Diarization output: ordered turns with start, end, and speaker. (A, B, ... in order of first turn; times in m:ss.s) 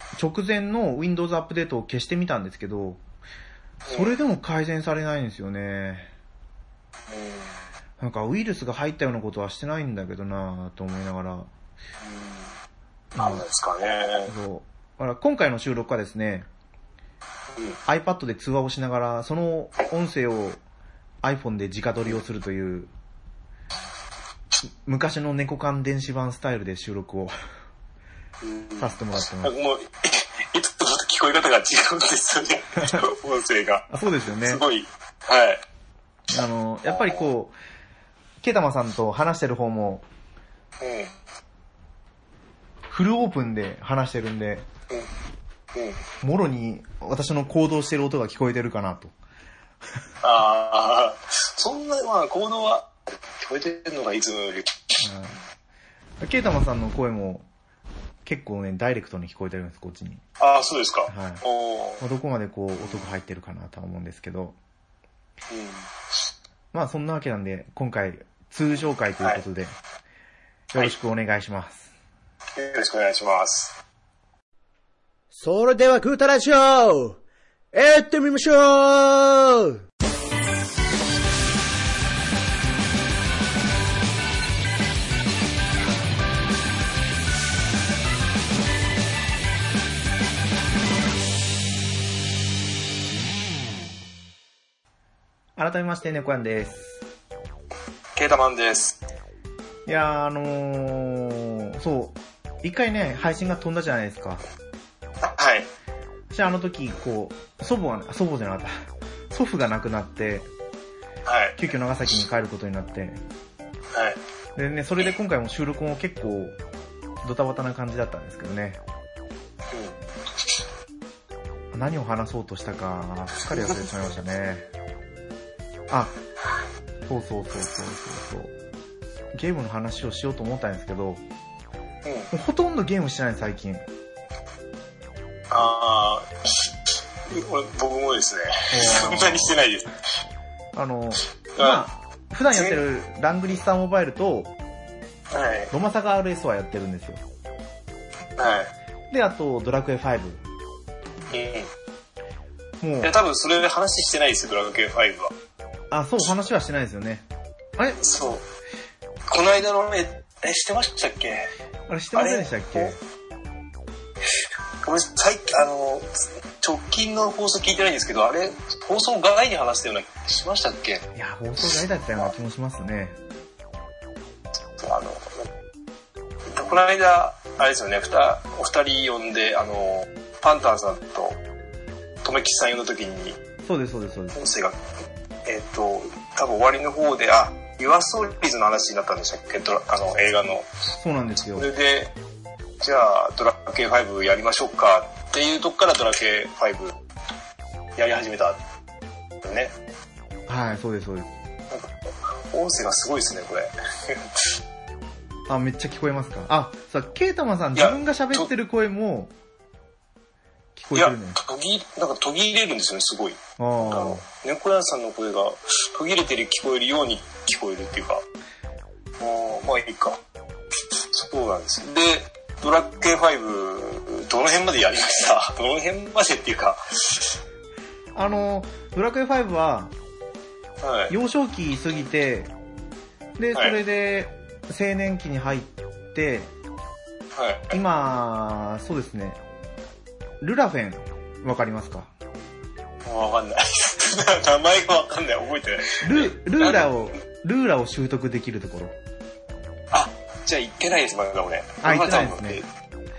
0:00.2-0:03.0 A
0:03.8-0:04.2 B
0:03.9-0:06.1 A
0:07.1-0:07.5 B
0:08.0-0:11.5 A
0:12.0-0:12.5 B
0:13.1-0:13.4 A
0:13.2-0:14.3 B
0:14.2-0:16.5 A
0:17.8-0:20.6 A
0:21.2-0:22.9 A
0:24.8-0:27.3 A
0:28.4-0:33.9 B
0:28.8-0:29.5 A
0:33.9-0:34.6 A
0:34.4-0:35.6 B
0:36.3-0:37.5 A
0:36.9-0:37.3 B
0:38.4-0:40.0 A
0:40.8-0:41.1 B
0:42.9-0:44.7 A
0:45.7-0:46.0 B
0:46.2-0:49.1 A
0:50.2-0:55.0 B
0:55.0-0:55.4 A
0:56.2-0:57.4 A
0:58.2-1:00.2 A
1:00.4-1:02.0 B
1:01.1-1:01.4 A
1:02.0-1:04.6 A
1:05.5-1:05.9 B
1:06.7-1:09.7 A
1:10.7-1:11.9 A
1:12.6-1:13.8 B
1:15.3-1:17.2 C
1:17.7-1:19.8 C
1:35.6-1:37.0 A
1:38.1-1:39.0 B
1:39.8-1:44.4 A
1:45.2-1:45.7 B
1:46.3-1:48.7 A
1:49.3-1:50.5 A
1:51.2-1:51.6 B
1:51.6-1:53.2 A
1:53.9-1:54.2 B
1:54.6-1:56.6 A
1:57.2-1:58.8 A
1:59.7-2:00.0 B
2:01.7-2:04.7 A
2:03.5-2:03.8 B
2:05.9-2:06.2 A
2:07.0-2:08.5 A
2:09.3-2:11.2 A
2:12.0-2:12.3 B
2:12.3-2:13.8 A
2:15.5-2:16.7 B
2:17.3-2:19.9 B
2:18.7-2:19.6 A
2:20.7-2:24.5 A
2:21.5-2:21.8 B
2:22.5-2:22.8 B
2:25.3-2:25.7 B
2:25.7-2:27.2 A
2:28.4-2:28.7 B
2:29.1-2:30.4 A
2:31.3-2:31.7 B
2:32.8-2:33.1 A
2:33.0-2:35.3 B
2:35.9-2:37.2 A
2:38.0-2:38.4 B
2:39.3-2:41.5 B
2:41.9-2:43.0 A
2:42.1-2:43.0 B
2:44.8-2:51.0 B
2:51.1-2:53.2 A
2:54.8-2:55.4 B
2:56.5-3:01.4 B
3:02.2-3:03.4 B
3:03.6-3:04.4 A
3:04.3-3:04.8 B
3:05.4-3:10.7 B
3:11.0-3:11.7 A
3:11.5-3:12.1 B
3:12.8-3:16.9 B
3:18.0-3:18.6 B
3:19.4-3:19.7 B
3:20.5-3:21.3 A
3:21.7-3:24.5 B
3:25.5-3:29.3 A
3:27.7-3:28.5 B
3:30.8-3:31.4 A
3:30.9-3:38.2 B
3:33.6-3:34.2 A
3:39.2-3:40.2 B
3:41.0-3:47.3 B
3:48.1-3:49.9 A
3:50.8-3:51.1 B
3:51.1-3:52.5 A
3:53.4-3:56.5 A
3:53.5-3:53.8 B
3:57.4-3:57.8 B
3:57.7-3:59.4 A
4:00.4-4:02.1 A
4:03.0-4:06.9 B
4:06.0-4:08.9 A
4:09.9-4:12.6 B
4:11.8-4:12.6 A